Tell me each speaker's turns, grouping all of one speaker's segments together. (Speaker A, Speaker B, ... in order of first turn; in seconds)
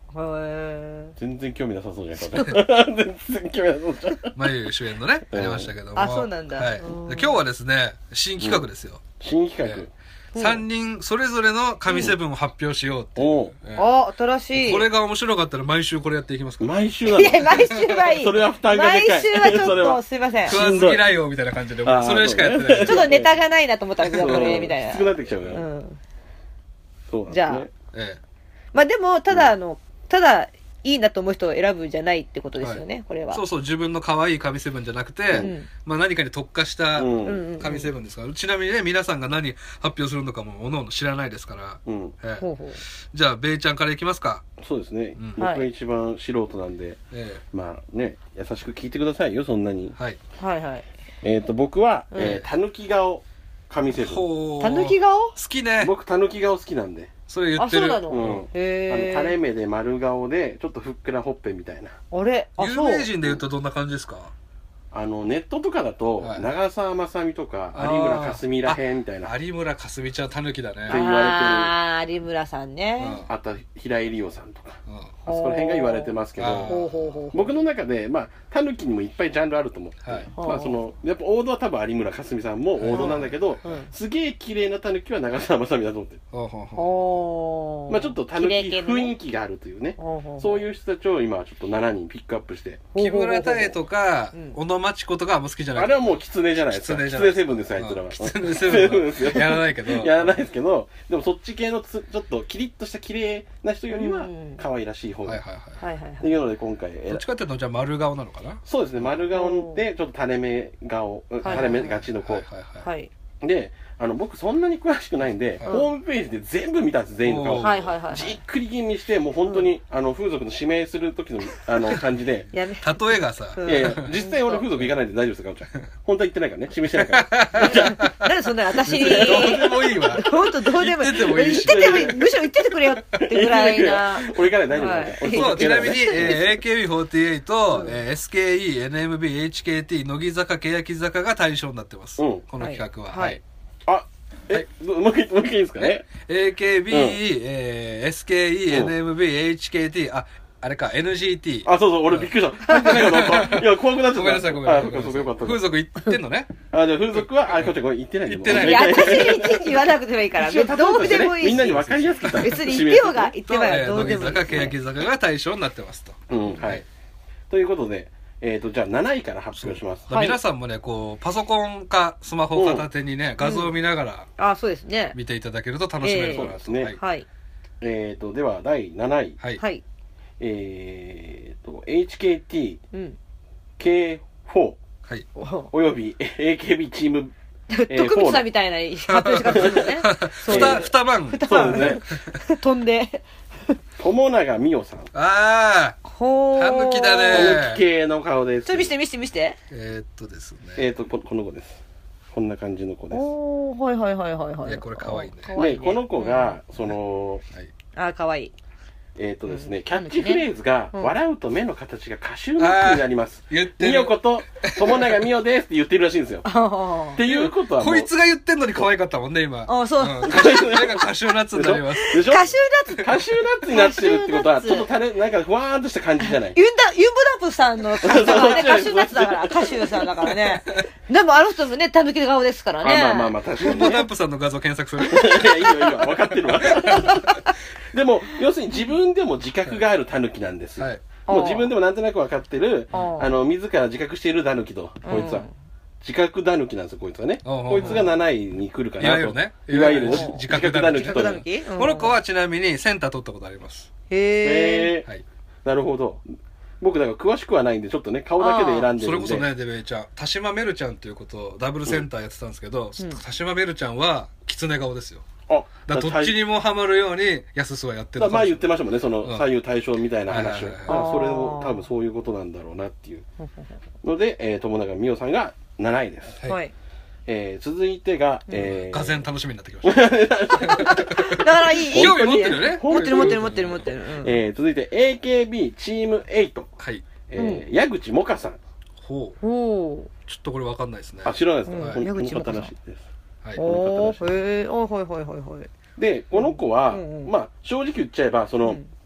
Speaker A: 0.1-1.1, 5.9-7.4, 10.3-10.6, 13.7-14.9, 17.1-20.6, 22.8-26.0, 27.3-27.6, 28.7-33.4, 35.4-35.7, 37.2-37.9, 42.4-42.8, 45.4-45.7, 50.4-50.9, 52.1-52.4, 54.6-55.4, 57.6-59.4, 62.1-63.1, 70.9-73.2, 75.2-77.5, 80.4-80.8, 82.9-83.9, 86.7-89.1, 90.0-90.6, 92.9-93.8, 103.9-104.6, 105.8-106.3, 109.3-109.8, 111.4-112.0, 112.8-113.1, 117.6-118.4, 122.5-124.6, 127.6-136.4, 142.6-143.4, 158.5-164.7, 170.1-170.4, 173.4-173.7, 174.4-175.2, 176.0-177.3, 182.9-183.2, 185.3-185.7, 187.7-193.8, 196.0-197.6, 198.7-199.6, 203.1-206.6, 207.9-208.5, 209.5-211.1, 216.4-217.2, 219.7-220.6, 222.0-224.9, 226.2-233.4, 241.3-241.7, 242.9-243.3, 245.0-245.5, 247.8-248.1, 249.8-252.2, 254.1-254.9, 258.4-258.9, 270.9-271.8, 276.4-276.7, 280.5-284.4, 287.4-287.6, 289.4-290.1, 291.7-292.7, 293.6-295.7, 296.3-297.3
Speaker B: 1.2-4.3, 5.3-5.7, 8.4-8.7, 9.2-9.9, 13.2-13.5, 16.6-21.1, 21.8-23.3, 24.1-25.6, 27.1-27.7, 36.9-37.4, 41.9-42.1, 44.6-47.0, 47.5-49.9, 51.2-54.2, 55.8-57.1, 58.1-61.9, 64.9-69.3, 70.9-71.7, 73.3-76.8, 77.3-86.2, 87.9-92.8, 95.8-105.4, 106.2-107.2, 108.7-112.4, 113.4-122.5, 123.6-128.0, 129.0-130.2, 131.5-132.2, 133.2-136.4, 142.2-142.4, 143.8-146.1, 146.9-147.2, 151.6-155.7, 156.7-159.7, 160.4-163.3, 166.3-166.8, 167.5-170.1, 172.5-172.9, 176.3-176.9, 177.8-179.4, 180.4-182.8, 183.8-184.8, 185.7-187.3, 187.9-188.5, 190.5-190.9, 191.4-192.0, 194.0-195.1, 197.3-198.9, 200.8-201.8, 202.3-203.2, 205.5-207.4, 209.2-216.4, 217.1-218.1, 220.2-226.6, 228.0-230.1, 232.8-234.1, 235.0-245.5, 246.0-251.4, 254.4-255.1, 255.6-256.2, 256.8-259.5, 265.5-266.3, 268.2-273.2, 274.0-276.4, 277.3-279.2, 279.8-286.7, 287.3-288.6, 291.2-294.3, 296.0-298.8
Speaker C: 4.3-9.1, 9.6-13.9, 14.5-16.8, 20.5-23.2, 24.1-24.6, 27.9-28.2, 32.6-44.5, 45.2-45.4, 47.1-47.4, 52.2-52.5, 53.9-55.9, 57.3-58.5, 62.6-64.3, 66.2-66.5, 67.7-71.0, 73.0-73.3, 74.9-75.1, 76.4-77.2, 80.0-80.3, 82.8-83.7, 86.3-86.9, 93.0-100.3, 105.2-105.8, 107.1-108.6, 111.4-112.9, 117.2-117.9, 122.8-124.1, 127.0-128.2, 128.8-132.2, 135.3-143.4, 145.8-156.5, 158.2-159.4, 163.5-166.8, 169.5-174.3, 175.1-177.0, 189.1-192.4, 195.1-196.0, 196.6-197.8, 199.7-200.8, 204.6-205.6, 212.6-215.2, 217.2-222.4, 230.3-230.8, 233.6-237.5, 247.4-248.1, 249.0-253.9, 259.0-265.2, 265.9-268.7, 270.3-271.0, 278.5-283.9, 286.8-287.1, 289.0-289.4, 290.2-292.0